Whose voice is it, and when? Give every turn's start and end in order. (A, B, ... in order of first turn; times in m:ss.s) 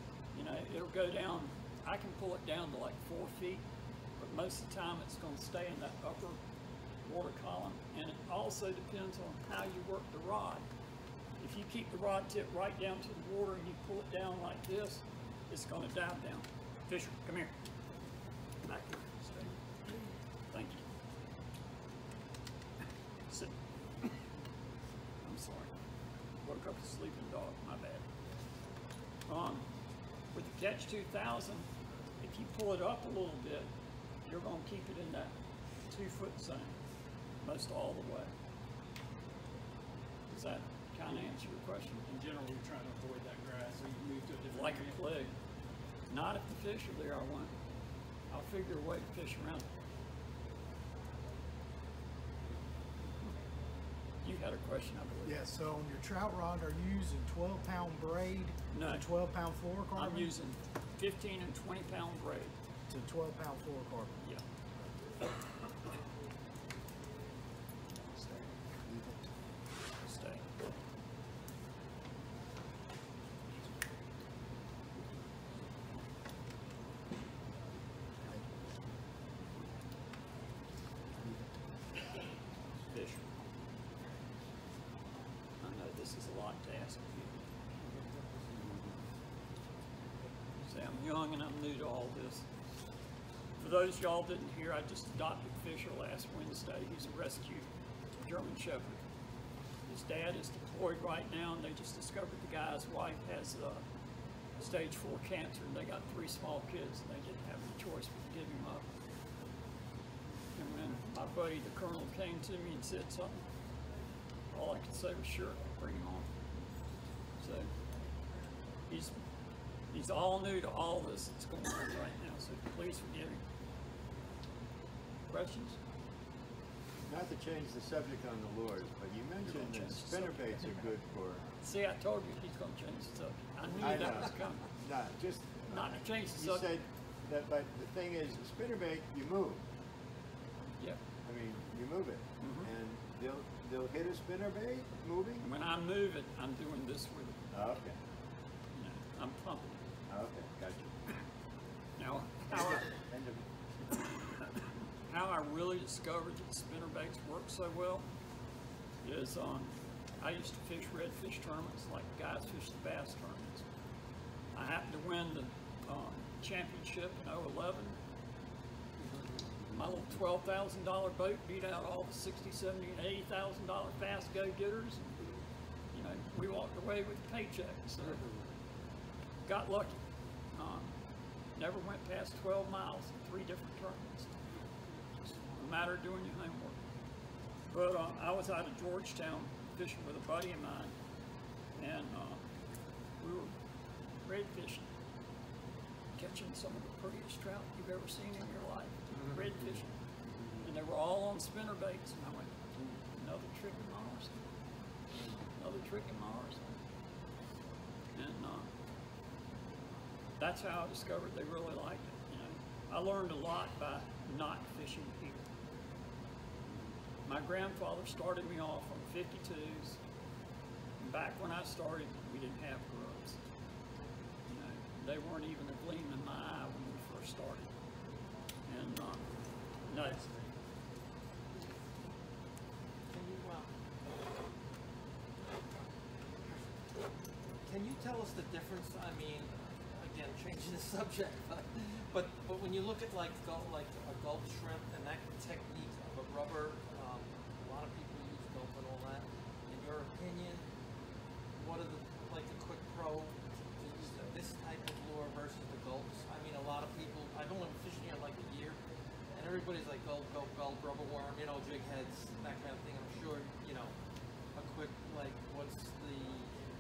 0:00.3-0:03.6 A
0:04.2-0:06.4 A
0:07.0-0:10.7 A
0:11.4-0:17.5 A
0:18.6-0:19.6 A
0:20.5-0:20.8 A
0:25.2-0:25.7 A
0:26.4-0:28.0 A
0:29.3-0:29.7 A
0:30.3-0:31.7 A
0:32.2-0:33.7 A
0:34.2-0:35.4 A
0:35.9-0:36.8 A
0:37.4-0:38.3 A
0:40.3-0:42.1 A
0:42.1-0:45.0 B
0:44.5-0:45.3 A
0:46.1-0:47.5 A
0:48.3-0:49.7 A
0:54.2-0:55.4 A
0:55.2-1:00.3 C
0:58.7-0:59.1 A
1:00.0-1:02.5 A
1:02.9-1:04.2 C
1:08.2-1:08.4 A
1:08.8-1:09.3 D
1:10.0-1:10.6 A
1:18.3-1:18.6 D
1:21.2-1:21.5 D
1:22.9-1:23.3 A
1:25.6-1:28.0 A
1:30.6-1:32.5 A
1:33.6-1:37.7 A
1:38.2-1:39.0 A
1:39.9-1:43.8 A
1:44.6-1:48.9 A
1:50.6-1:53.4 A
1:54.5-1:56.3 A
1:57.4-1:57.7 A
1:58.9-1:59.2 A
1:59.9-2:03.4 A
2:05.3-2:05.8 A
2:07.1-2:11.5 D
2:09.4-2:10.7 A
2:11.6-2:14.7 A
2:13.8-2:19.7 D
2:15.7-2:16.7 A
2:21.2-2:25.5 D
2:22.4-2:22.7 A
2:25.4-2:27.4 A
2:27.5-2:28.0 D
2:28.8-2:29.8 A
2:30.1-2:31.0 D
2:32.0-2:32.9 A
2:33.1-2:33.4 D
2:35.1-2:38.1 A
2:39.0-2:43.6 A
2:44.6-2:48.0 A
2:49.7-2:55.2 A
2:55.9-2:58.2 A
2:59.5-3:00.0 A
3:00.6-3:00.9 A
3:01.6-3:04.3 A
3:05.3-3:06.8 A
3:07.7-3:10.9 A
3:11.8-3:12.4 A
3:13.2-3:13.5 A
3:14.2-3:14.9 A
3:16.2-3:19.9 A
3:20.6-3:22.5 A
3:23.2-3:24.4 A
3:25.6-3:26.8 A
3:28.2-3:28.7 A
3:30.4-3:35.4 A
3:37.3-3:40.0 A
3:41.0-3:43.4 A
3:44.5-3:47.7 A
3:48.7-3:49.3 A
3:49.9-3:50.2 A
3:53.1-3:53.7 E
3:56.4-3:56.8 E
3:57.7-4:10.7 E
4:11.6-4:18.8 E
4:19.4-4:23.9 E
4:24.6-4:26.6 E